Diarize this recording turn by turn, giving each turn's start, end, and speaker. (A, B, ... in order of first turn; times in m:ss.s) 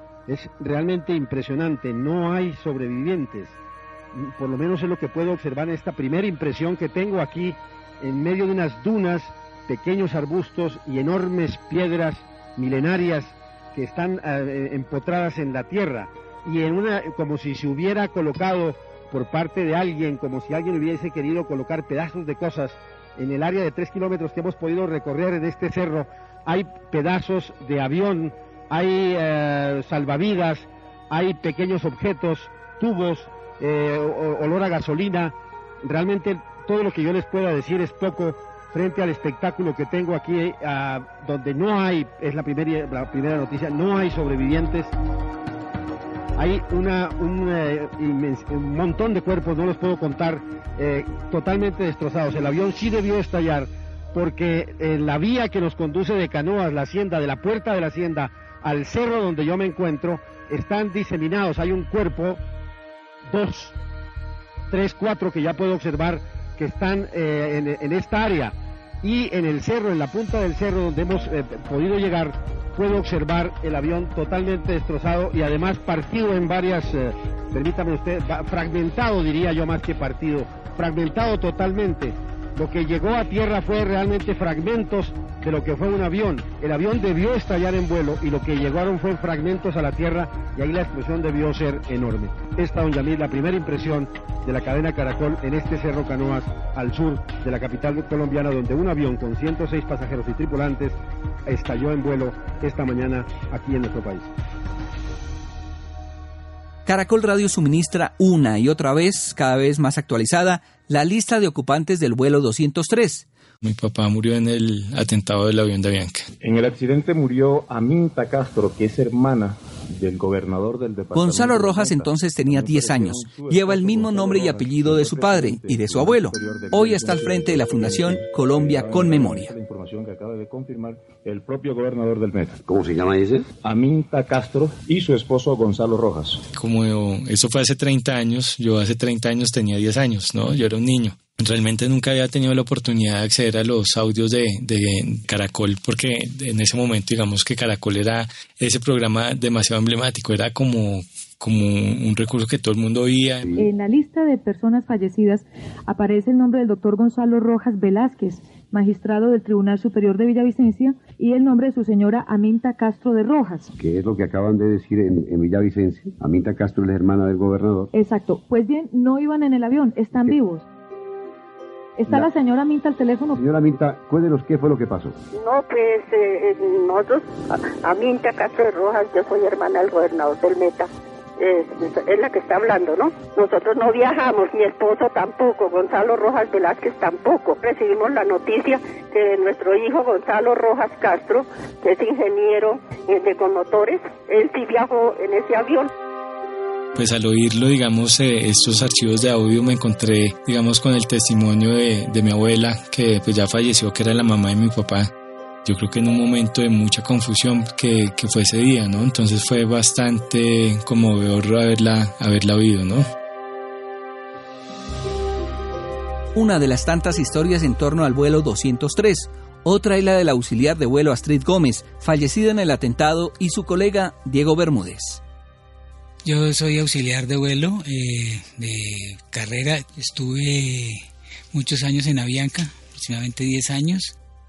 0:00.3-0:03.6 A
0:04.1-0:44.9 A
0:46.4-1:02.4 A
1:03.3-1:03.8 A
1:04.7-1:44.3 A
1:46.9-1:53.3 B
1:53.6-1:56.3 C
1:56.4-2:12.6 D
2:01.1-2:09.5 B
2:12.7-2:13.5 E
2:13.6-2:16.4 D
2:16.5-2:33.6 C
2:33.5-2:43.7 F
2:43.8-2:47.9 E
2:47.9-2:50.7 F
2:52.0-2:53.4 F
2:53.3-2:55.2 E
2:55.3-3:15.9 G
3:17.0-3:25.1 C
3:25.6-3:33.1 C
3:36.4-3:45.2 B
3:46.2-3:54.2 H